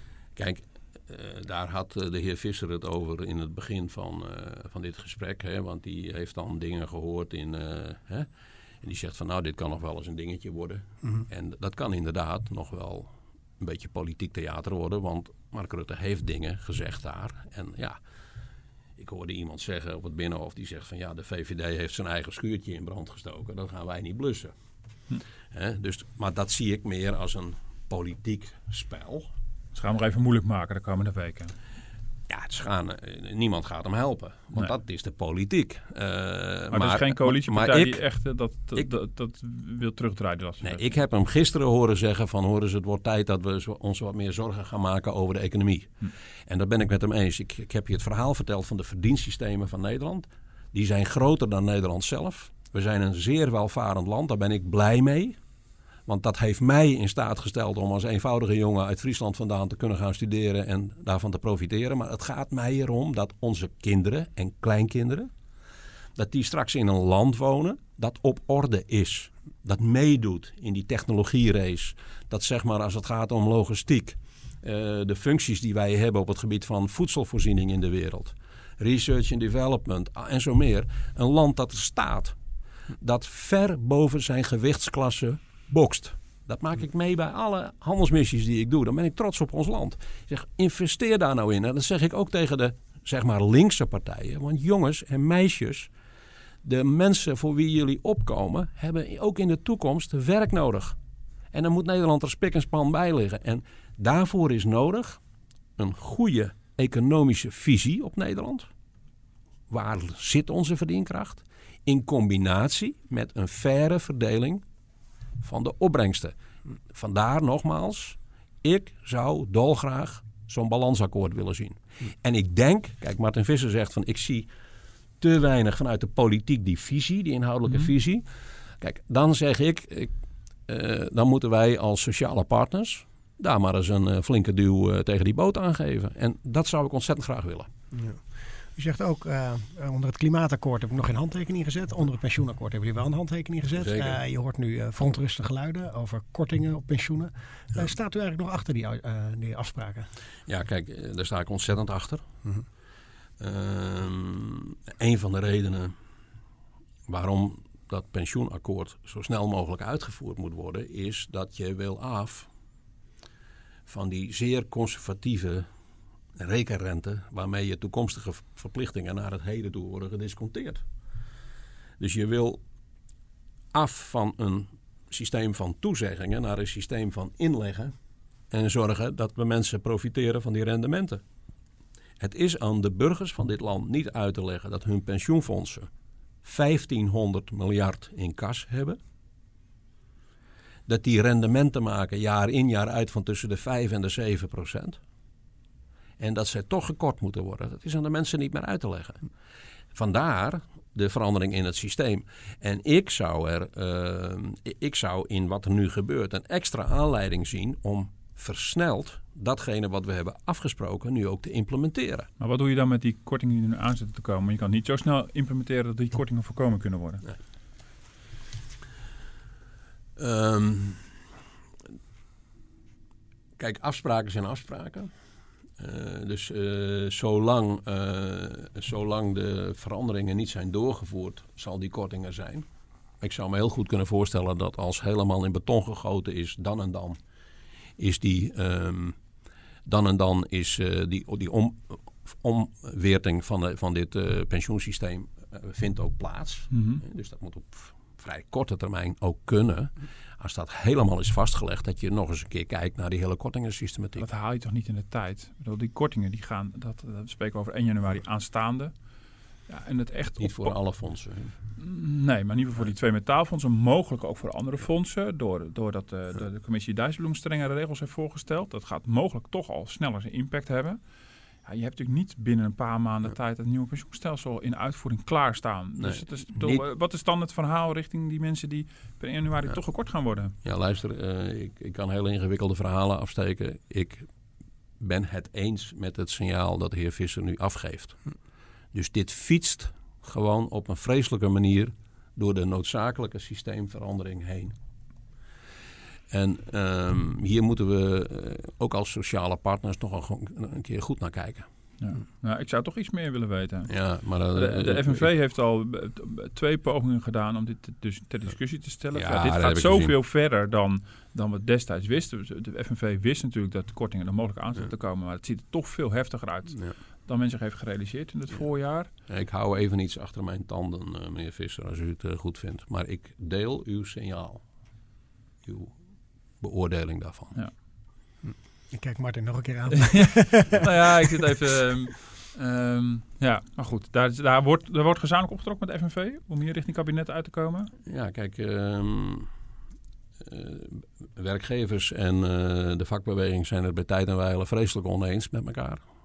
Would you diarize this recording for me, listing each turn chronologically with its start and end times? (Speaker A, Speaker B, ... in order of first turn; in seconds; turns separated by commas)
Speaker A: 0.4-8.3, Speaker A: 8.8-18.0, Speaker A: 19.0-24.5, Speaker A: 25.5-29.3, Speaker B: 29.8-31.5, Speaker A: 32.3-38.0, Speaker B: 36.7-40.9, Speaker A: 40.6-45.9, Speaker A: 46.5-55.4, Speaker A: 56.1-65.3, Speaker A: 66.2-82.4, Speaker A: 83.0-95.9, Speaker A: 96.6-101.0, Speaker A: 101.5-105.2, Speaker A: 105.8-108.7, Speaker A: 109.7-114.6, Speaker A: 115.4-116.3, Speaker A: 116.9-124.5, Speaker A: 125.2-128.3, Speaker A: 128.8-130.1, Speaker A: 130.7-137.7, Speaker C: 137.9-138.2, Speaker C: 138.8-150.1, Speaker A: 143.8-144.2, Speaker A: 150.5-152.3, Speaker A: 153.4-155.9, Speaker A: 157.1-162.5, Speaker A: 163.9-165.7, Speaker A: 166.4-170.8, Speaker A: 172.0-172.6, Speaker A: 173.7-177.9, Speaker A: 178.5-181.2, Speaker A: 182.2-185.9, Speaker A: 186.4-189.0, Speaker A: 190.9-195.0, Speaker A: 196.2-199.2, Speaker A: 199.9-212.3, Speaker B: 212.4-217.2, Speaker A: 220.2-221.1, Speaker A: 223.6-225.1, Speaker A: 225.8-232.7, Speaker A: 233.2-237.2, Speaker A: 238.0-239.2, Speaker A: 239.9-254.2, Speaker B: 246.7-247.0, Speaker B: 254.2-258.9, Speaker B: 259.7-260.8, Speaker A: 260.4-261.5, Speaker B: 261.8-271.0, Speaker B: 271.6-280.6, Speaker A: 276.0-276.8, Speaker A: 280.6-284.3, Speaker A: 285.0-288.2, Speaker A: 288.9-294.8, Speaker A: 296.3-301.7, Speaker B: 302.0-303.9, Speaker A: 303.9-305.3, Speaker B: 304.5-319.1, Speaker A: 309.1-310.1, Speaker A: 319.3-324.6, Speaker A: 325.7-326.0, Speaker A: 326.6-327.6, Speaker C: 328.4-330.8, Speaker B: 329.9-337.9, Speaker A: 338.1-339.5, Speaker A: 340.4-346.0